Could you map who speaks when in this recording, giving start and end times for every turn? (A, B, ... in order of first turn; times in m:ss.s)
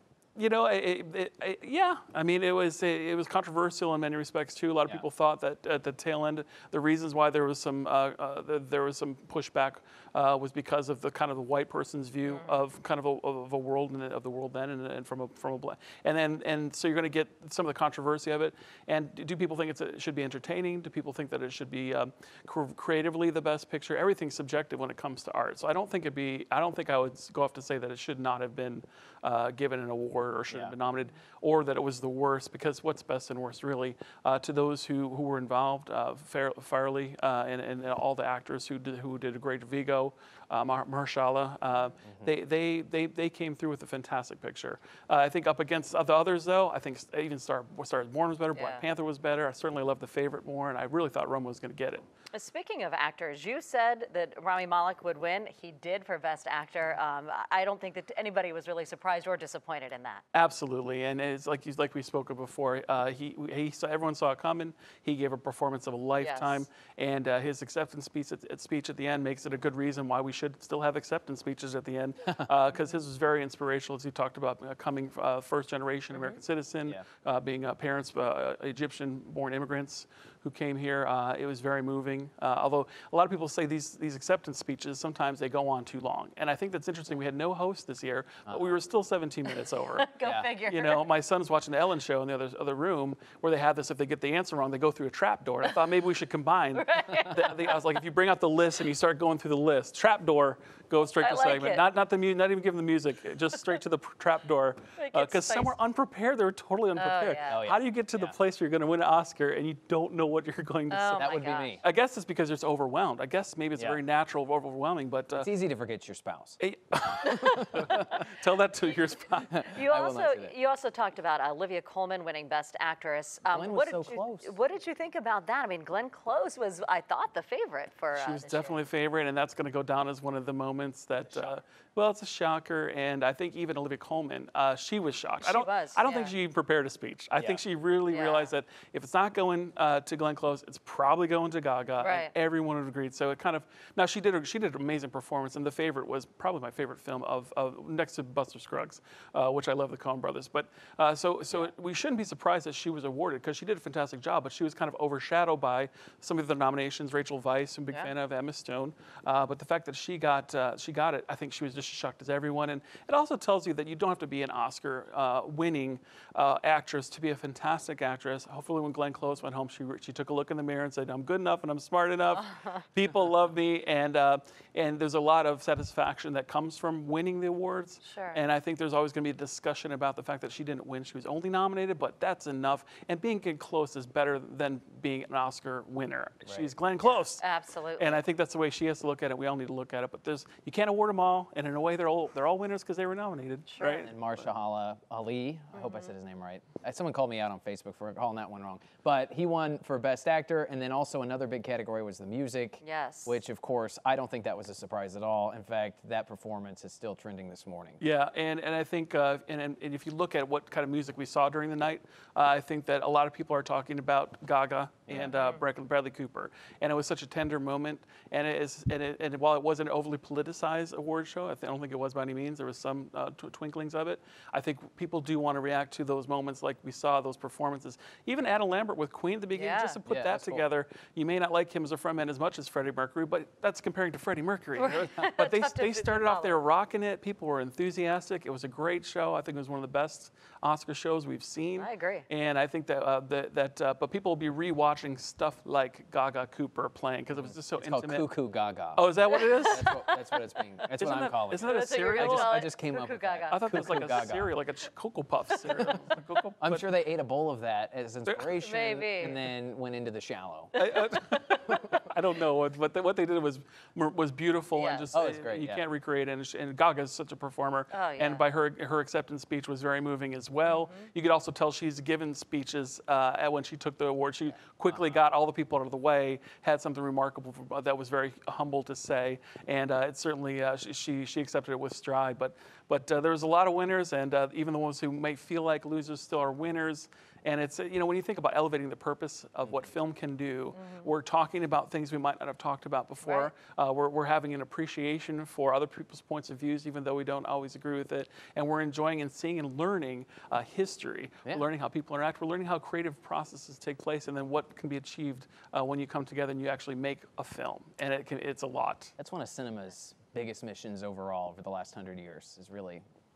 0:00.4-0:52.0 A
0:12.3-0:12.6 B
0:30.5-0:30.8 C
0:48.5-0:48.8 B
0:52.3-1:00.2 B
1:00.3-1:30.1 A
1:06.2-1:06.6 B
1:28.5-1:28.7 C
1:29.9-1:31.0 B
1:30.2-1:30.5 C
1:30.7-1:55.5 A
1:36.7-1:37.8 B
1:41.2-1:41.8 B
1:45.0-1:45.7 B
1:47.0-1:47.6 B
1:47.5-1:48.4 C
1:50.9-1:51.8 B
1:51.2-1:51.8 C
1:55.3-1:56.6 C
1:56.6-1:59.6 A
1:57.4-1:58.2 C
1:59.5-2:00.6 C
1:59.6-2:08.8 B
2:03.4-2:04.5 C
2:08.1-3:07.4 A
2:11.3-2:11.5 C
2:15.4-2:16.4 B
2:17.4-2:17.6 C
2:18.1-2:18.5 B
2:22.0-2:22.3 B
2:58.0-2:58.4 B
3:07.0-3:08.2 B
3:08.0-3:14.1 A
3:13.7-3:14.1 B
3:13.9-3:28.0 C
3:15.7-3:16.1 B
3:22.8-3:23.4 B
3:28.0-4:08.3 A
3:35.1-3:35.4 C
3:49.5-3:50.0 B
3:50.1-3:50.6 C
3:54.8-3:56.6 B
4:01.8-4:02.3 B
4:07.4-4:14.5 C
4:09.0-4:09.9 A
4:09.3-4:10.2 B
4:11.0-4:12.6 A
4:11.6-4:13.6 B
4:13.5-4:16.9 A
4:15.7-4:15.9 B
4:16.6-4:21.0 C
4:18.3-4:18.5 A
4:18.6-4:19.4 B
4:20.8-5:09.1 A
4:24.7-4:25.1 B
4:25.1-4:25.8 C
4:27.9-4:28.4 B
4:30.7-4:31.1 B
4:50.7-4:51.1 B
4:53.2-4:53.5 B
5:09.2-5:13.0 C